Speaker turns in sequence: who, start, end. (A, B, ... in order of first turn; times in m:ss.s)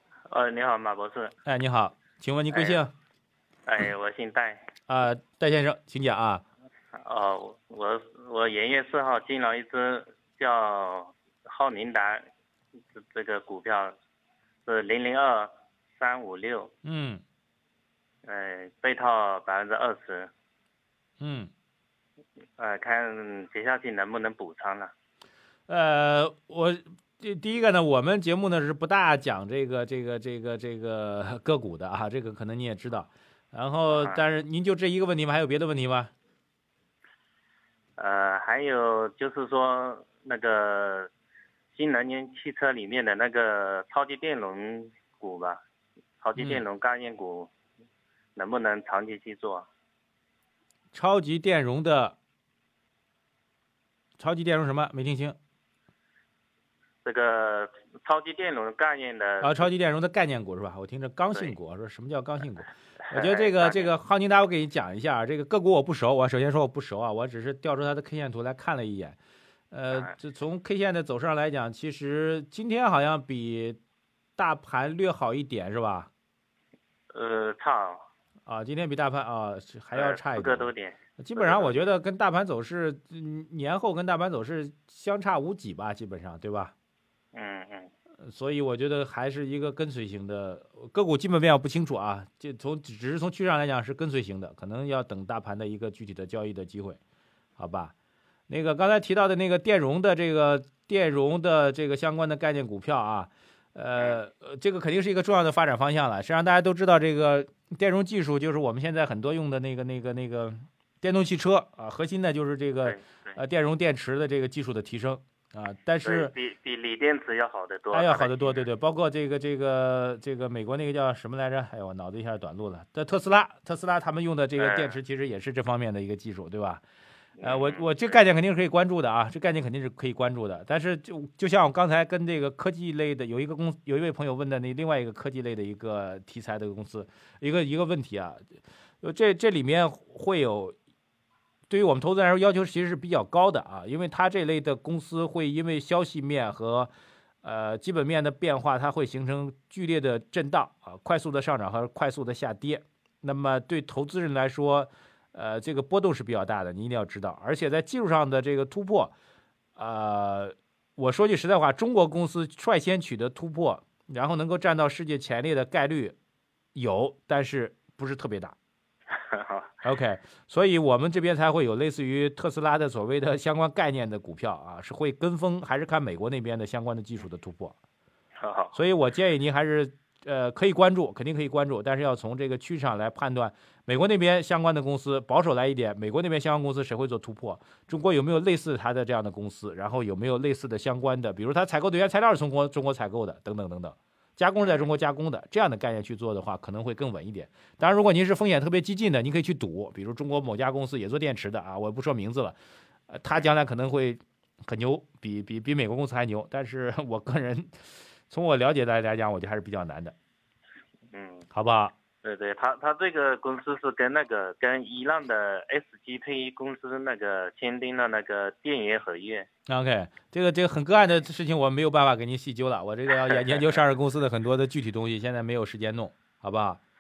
0:00.3-0:01.3 A
0:01.4-0:02.9 B
0:02.5-0:02.8 A
0:03.6-0:04.7 A
0:04.9-0:06.4 B
0:06.9-0:12.2 A
0:12.9-0:13.9 A
0:14.6-0:16.7 A
0:16.8-0:17.2 B
0:18.2-0:20.3 A
0:21.2-0:21.5 B
0:22.6-0:24.9 A
0:25.7-0:36.1 B
0:33.9-0:34.2 A
0:38.0-0:41.1 A
0:41.7-0:45.6 A
0:46.2-0:47.5 A
0:46.4-0:46.6 B
0:48.4-0:49.7 A
0:50.9-0:52.2 B
0:54.2-0:55.4 B
0:57.0-0:59.7 A
0:59.4-1:09.2 B
1:03.0-1:03.9 A
1:09.7-1:13.8 B
1:14.4-1:16.1 B
1:17.1-1:18.0 A
1:18.5-1:26.7 B
1:19.9-1:21.8 A
1:27.3-1:27.9 A
1:28.2-1:37.0 B
1:37.6-1:37.9 B
1:38.5-1:56.3 B
1:52.8-1:53.4 A
1:56.0-1:58.6 A
1:57.9-2:06.8 B
2:04.6-2:05.0 A
2:07.4-2:08.2 A
2:07.4-2:18.4 B
2:19.0-2:20.7 B
2:21.7-2:26.9 B
2:27.4-2:39.1 B
2:39.8-2:46.1 B
2:46.7-2:48.6 B
2:49.1-2:49.7 A
2:49.8-2:57.8 B
2:58.4-2:58.8 A
2:58.7-3:22.5 B
3:14.6-3:14.9 A
3:23.1-3:30.1 B
3:31.1-3:31.5 A
3:31.5-3:31.9 B
3:32.2-3:39.5 A
3:39.7-3:46.8 B
3:43.3-3:43.8 A